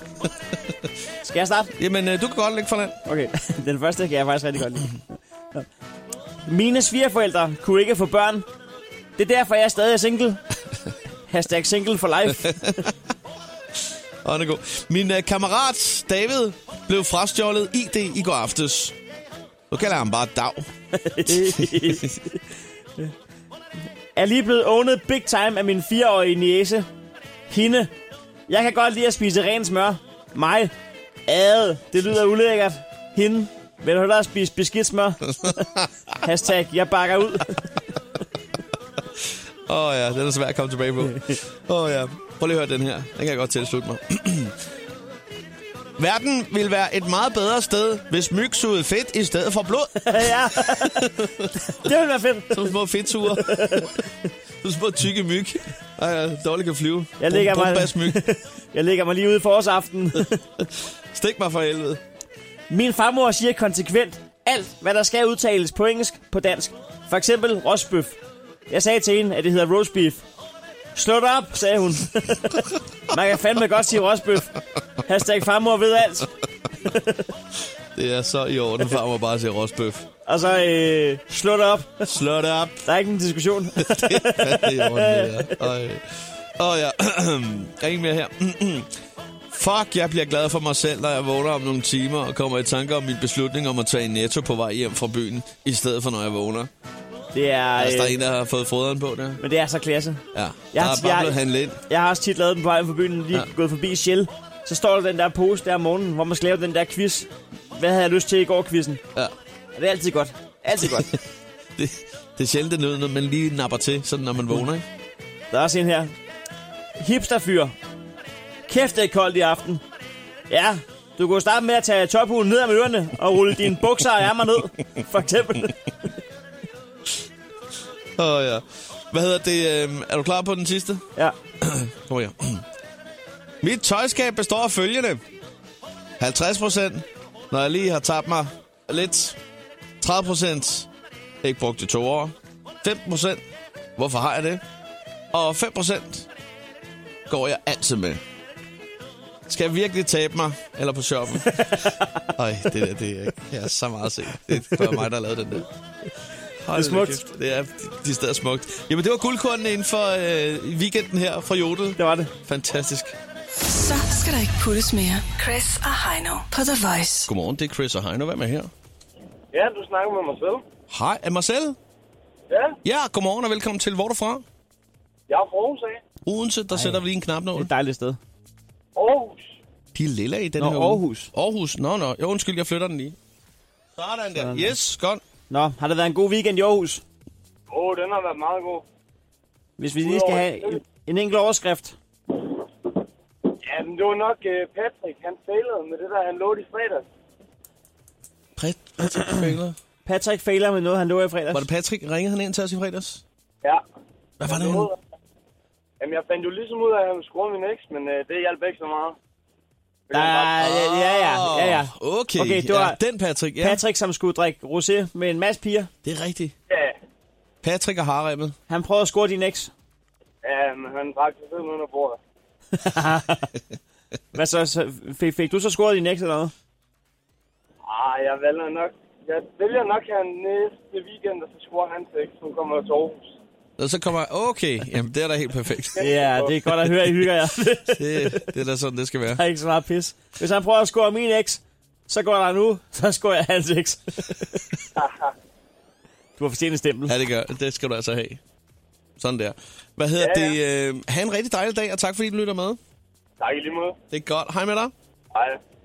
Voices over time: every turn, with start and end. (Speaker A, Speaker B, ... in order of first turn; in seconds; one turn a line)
Speaker A: 1.2-1.7
Speaker B: 1.8-3.0
Speaker A: 3.1-5.7
Speaker A: 6.5-8.5
Speaker A: 9.2-10.4
Speaker A: 11.3-12.6
Speaker B: 12.3-12.9
Speaker B: 13.8-19.0
Speaker B: 19.7-20.7
Speaker A: 21.0-22.4
Speaker B: 21.3-22.2
Speaker A: 24.2-26.9
Speaker A: 27.5-27.9
Speaker A: 28.5-30.7
Speaker A: 31.3-35.5
Speaker B: 35.4-35.9
Speaker A: 36.2-37.6
Speaker B: 39.1-44.6
Speaker B: 46.0-51.5
Speaker A: 50.1-51.0
Speaker A: 51.6-52.7
Speaker B: 52.5-54.0
Speaker A: 53.4-53.9
Speaker B: 54.6-58.2
Speaker A: 57.2-60.4
Speaker B: 60.6-62.0
Speaker A: 62.7-68.2
Speaker A: 68.7-70.2
Speaker A: 71.0-76.3
Speaker A: 76.8-77.3
Speaker B: 78.0-80.1
Speaker A: 80.3-82.1
Speaker B: 82.0-82.9
Speaker A: 82.8-85.6
Speaker B: 83.8-88.9
Speaker B: 89.5-96.7
Speaker A: 97.3-98.2
Speaker B: 97.8-99.4
Speaker A: 99.4-101.4
Speaker B: 100.3-101.8
Speaker A: 101.9-109.0
Speaker A: 109.8-111.1
Speaker B: 110.8-111.2
Speaker B: 111.8-114.9
Speaker A: 115.5-116.1
Speaker A: 117.0-117.8
Speaker A: 118.7-119.8
Speaker A: 120.5-125.8
Speaker B: 128.2-131.1
Speaker B: 131.6-132.6
Speaker B: 133.6-135.2
Speaker B: 136.2-139.4
Speaker B: 140.0-140.9
Speaker B: 141.4-143.4
Speaker B: 144.0-144.6
Speaker B: 145.3-146.3
Speaker B: 147.3-148.2
Speaker B: 149.5-155.7
Speaker A: 151.5-152.3
Speaker A: 154.6-155.0
Speaker B: 156.6-163.2
Speaker A: 156.8-157.2
Speaker A: 162.0-162.3
Speaker C: 163.7-167.3
Speaker B: 167.3-168.7
Speaker D: 169.5-170.6
Speaker B: 170.9-171.8
Speaker D: 172.5-172.8
Speaker B: 172.8-174.4
Speaker D: 175.3-176.0
Speaker B: 176.2-177.7
Speaker A: 176.7-177.0
Speaker A: 177.6-178.2
Speaker D: 179.0-179.6
Speaker B: 179.9-183.2
Speaker A: 180.6-181.3
Speaker B: 183.9-185.2
Speaker A: 184.3-184.8
Speaker A: 185.5-187.0
Speaker D: 187.7-188.8
Speaker A: 189.8-192.0
Speaker D: 190.0-190.8
Speaker D: 193.6-197.1
Speaker B: 198.6-199.8
Speaker A: 200.1-201.7
Speaker B: 201.5-203.2
Speaker B: 204.4-204.9
Speaker D: 204.4-205.0
Speaker D: 206.0-209.2
Speaker D: 210.1-210.6
Speaker A: 210.1-213.0
Speaker B: 210.6-213.8
Speaker A: 213.6-215.9
Speaker B: 216.0-216.6
Speaker D: 216.7-217.0
Speaker B: 217.6-218.6
Speaker A: 218.7-219.7
Speaker D: 220.4-222.2
Speaker A: 222.7-223.5
Speaker A: 224.3-226.5
Speaker D: 227.8-233.4
Speaker B: 233.8-236.1
Speaker D: 236.0-236.6
Speaker A: 236.0-238.4
Speaker B: 237.9-239.4
Speaker A: 239.4-244.6
Speaker D: 245.0-245.3
Speaker A: 246.4-247.2
Speaker B: 247.1-248.4
Speaker B: 249.2-252.8
Speaker D: 250.2-250.6
Speaker D: 253.4-254.0
Speaker B: 254.1-254.9
Speaker D: 255.3-255.6